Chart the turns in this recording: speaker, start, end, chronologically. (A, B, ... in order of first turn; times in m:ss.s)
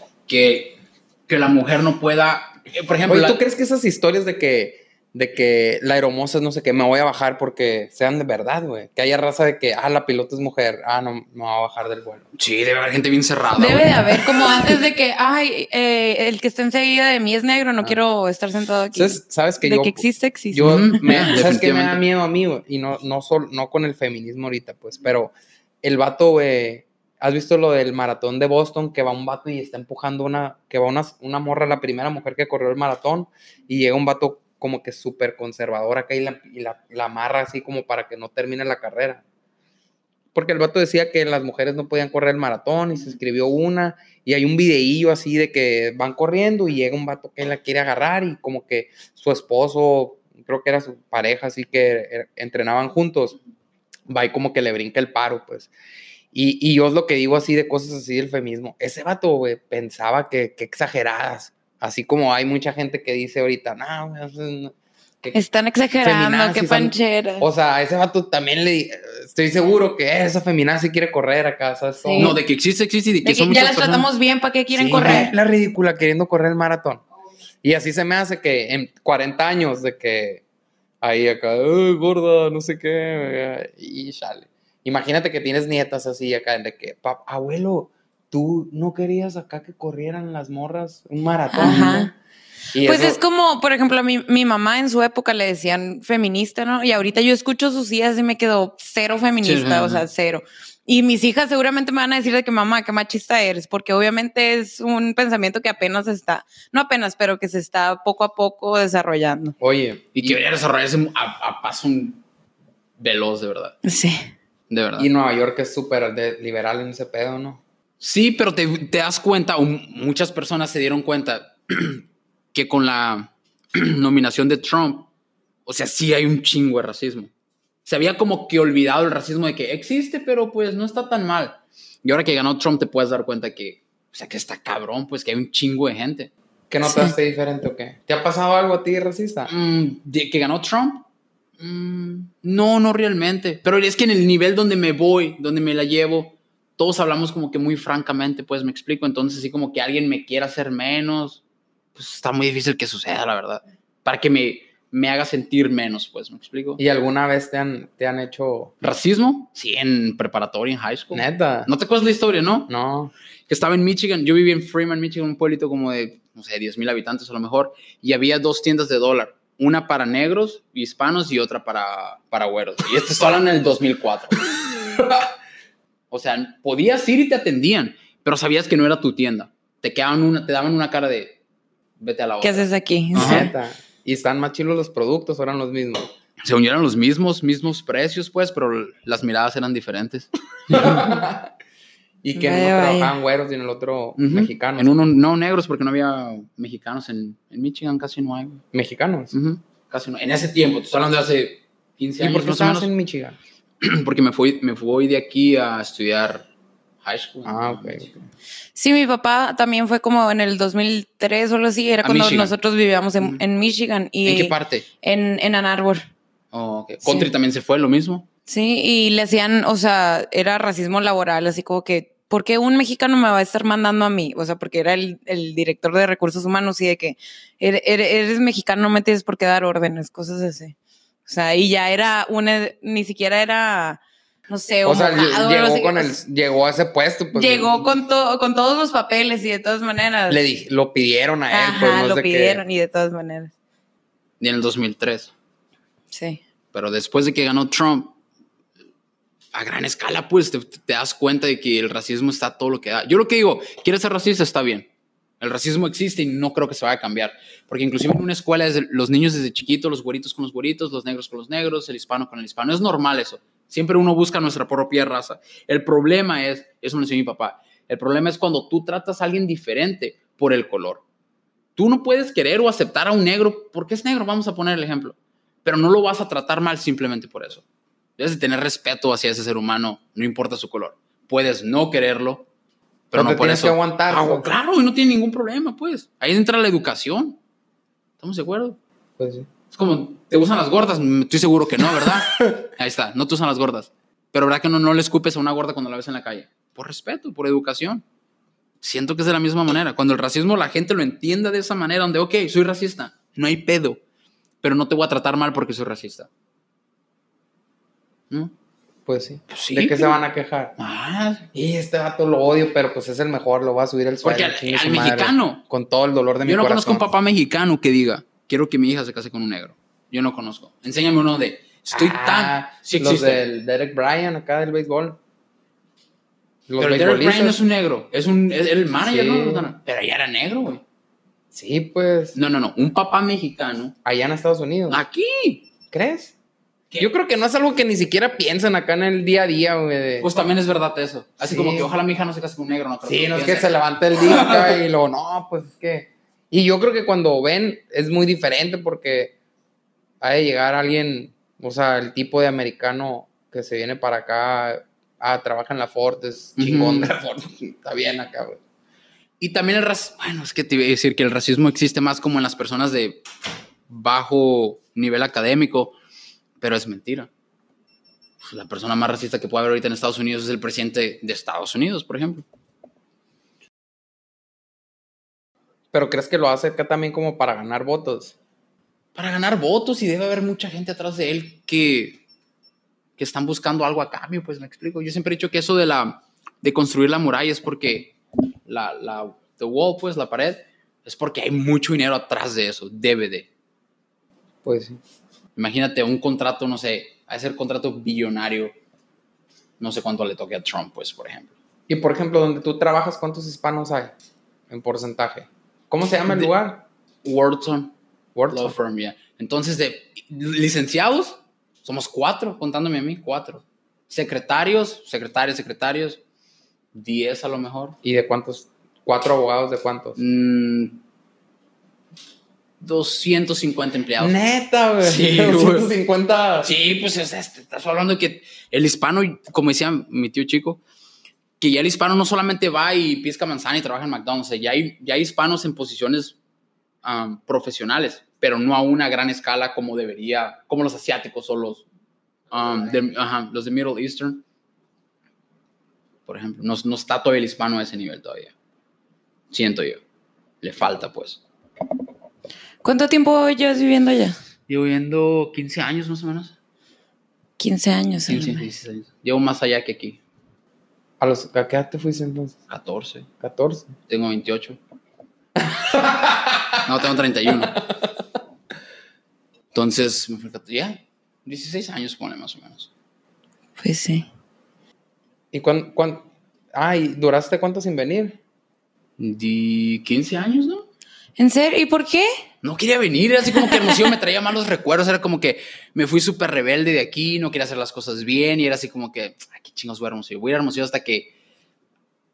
0:00.3-0:03.4 A
0:03.1-0:12.2 B
0:12.3-0:14.3 A
0:13.6-0:21.1 C
0:18.9-0:39.2 B
0:20.6-0:22.0 A
0:40.3-0:53.4 B
0:54.1-0:55.7 B
0:56.3-1:05.4 B
1:05.3-1:07.5 C
1:06.0-1:12.4 B
1:12.0-1:12.4 C
1:12.2-1:14.1 A
1:13.2-1:15.3 C
1:14.7-1:17.0 B
1:17.6-1:20.4 B
1:21.0-1:32.1 B
1:31.5-1:32.1 C
1:32.7-1:33.2 B
1:32.8-1:49.6 C
1:39.4-1:40.0 A
1:49.6-1:50.4 B
1:50.1-1:52.2 A
1:53.0-1:53.8 A
1:53.8-1:54.3 C
1:54.7-1:55.1 A
1:55.0-1:57.6 B
1:58.0-2:05.1 A
2:05.6-2:07.3 A
2:07.8-2:16.3 A
2:16.7-2:19.5 B
2:16.8-2:17.1 C
2:19.5-2:21.0 A
2:21.6-2:31.4 A
2:31.9-2:36.8 A
2:36.8-2:38.7 B
2:38.8-2:42.7 A
2:41.1-2:41.7 B
2:42.7-2:43.1 B
2:43.5-2:54.4 A
2:55.0-2:55.2 B
2:56.1-3:01.4 A
3:02.0-3:03.5 A
3:02.4-3:03.5 C
3:03.2-3:06.1 B
3:06.4-3:11.1 A
3:10.7-3:11.5 B
3:12.2-3:14.9 B
3:12.3-3:13.1 C
3:14.2-3:18.6 A
3:18.7-3:19.3 B
3:19.3-3:22.9 A
3:22.2-3:23.4 B
3:23.8-3:26.5 A
3:27.0-3:28.1 A
3:27.4-3:28.2 B
3:28.8-3:36.0 C
3:32.0-3:32.5 A
3:34.2-3:34.8 A
3:36.5-3:38.2 A
3:37.0-3:37.3 C
3:38.5-3:50.7 C
3:51.2-3:56.2 C
3:54.8-3:57.8 B
3:57.3-4:00.4 C
4:00.3-4:02.6 B
4:01.5-4:03.5 C
4:04.4-4:05.3 A
4:06.1-4:06.4 C
4:06.7-4:08.1 A
4:09.5-4:14.9 A
4:15.4-4:31.0 A
4:31.8-4:37.6 A
4:38.2-4:42.4 A
4:43.1-4:47.4 A
4:43.1-4:44.5 B
4:48.2-4:48.8 A
4:49.2-4:49.5 B
4:49.7-4:58.0 A
4:58.8-5:04.0 A
5:04.6-5:06.3 A
5:09.0-5:10.7 B
5:09.5-5:10.2 A
5:10.8-5:11.5 A
5:11.5-5:17.0 B
5:14.2-5:15.6 A
5:16.4-5:23.4 A
5:21.9-5:25.2 B
5:26.7-5:27.6 B
5:26.8-5:30.8 A
5:29.0-5:29.7 B
5:31.5-5:32.4 B
5:32.3-5:33.9 A
5:34.0-5:35.0 B
5:34.9-5:35.6 A
5:35.9-5:36.3 B
5:37.0-5:40.3 B
5:40.2-5:43.7 A
5:41.4-5:41.9 B
5:43.0-5:49.3 B
5:44.2-5:44.7 A
5:50.2-5:58.6 B
5:56.6-5:57.1 A
5:59.4-6:03.2 A
6:03.9-6:06.0 A
6:06.6-6:07.3 A
6:08.4-6:12.4 A
6:15.9-6:18.3 B
6:19.1-6:22.2 A
6:23.2-6:33.5 A
6:34.6-6:35.0 B
6:35.6-6:38.7 A
6:39.8-6:41.5 A
6:41.9-6:44.1 B
6:44.7-6:46.8 B
6:46.3-6:46.5 A
6:47.2-6:47.9 A
6:48.3-6:48.8 B
6:48.5-6:56.2 A
6:56.9-6:58.0 A
6:58.0-7:00.2 B
7:00.2-7:01.0 A
7:02.8-7:04.4 A
7:04.2-7:06.7 B
7:05.0-7:05.9 A
7:06.6-7:10.8 A
7:11.6-7:16.4 A
7:17.0-7:21.8 A
7:22.5-7:24.4 A
7:26.2-7:28.5 A
7:29.5-7:30.0 A
7:30.6-7:31.4 A
7:32.8-7:34.4 C
7:34.7-7:36.5 A
7:37.6-7:38.6 C
7:38.3-7:40.2 A
7:41.2-7:42.6 B
7:42.7-7:43.3 A
7:43.4-7:43.9 B
7:44.1-7:44.8 A
7:45.6-7:46.8 B
7:46.8-7:47.8 A
7:47.7-7:48.1 B
7:49.7-7:52.9 A
7:53.8-7:54.3 C
7:55.5-7:58.4 B
7:59.2-8:00.8 A
8:01.4-8:02.3 C
8:02.6-8:11.3 A